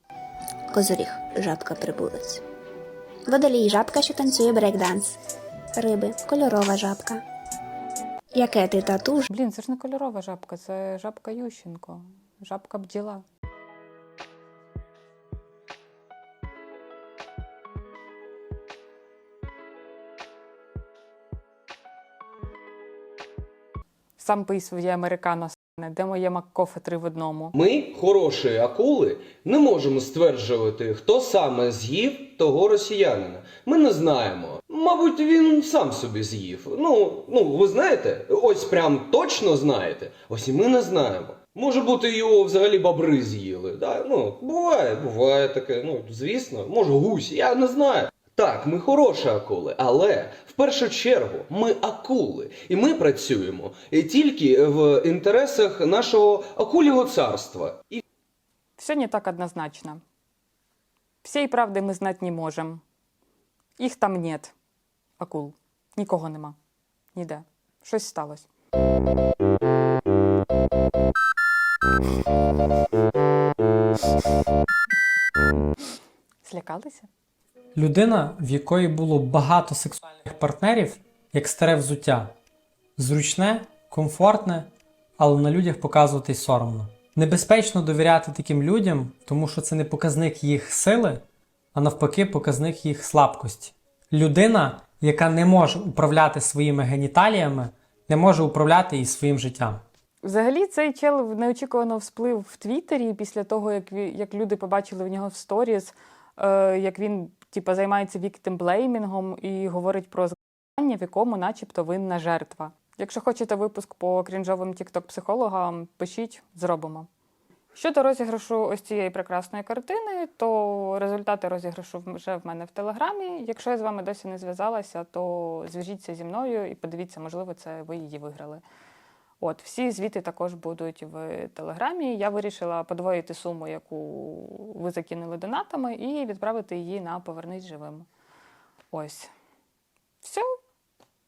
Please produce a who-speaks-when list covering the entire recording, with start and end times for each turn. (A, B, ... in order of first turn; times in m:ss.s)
0:00.7-0:02.4 A
0:03.3-0:05.1 A
0:05.7-0:07.2 A
0:08.3-0:09.3 A
0:09.3-0:13.2 B
0:24.2-0:27.5 B
0:27.5-0:58.0 C
0:58.8-1:00.0 B
1:01.2-1:02.8 B
1:03.8-1:04.5 B
1:05.2-1:06.6 B
1:07.1-1:08.5 B
1:16.4-1:17.1 B
1:17.8-1:22.3 D
1:23.0-1:31.2 D
1:31.7-1:39.8 D
1:40.2-1:57.1 B
1:57.7-2:08.6 B
2:09.4-2:18.0 B
2:18.9-2:19.3 B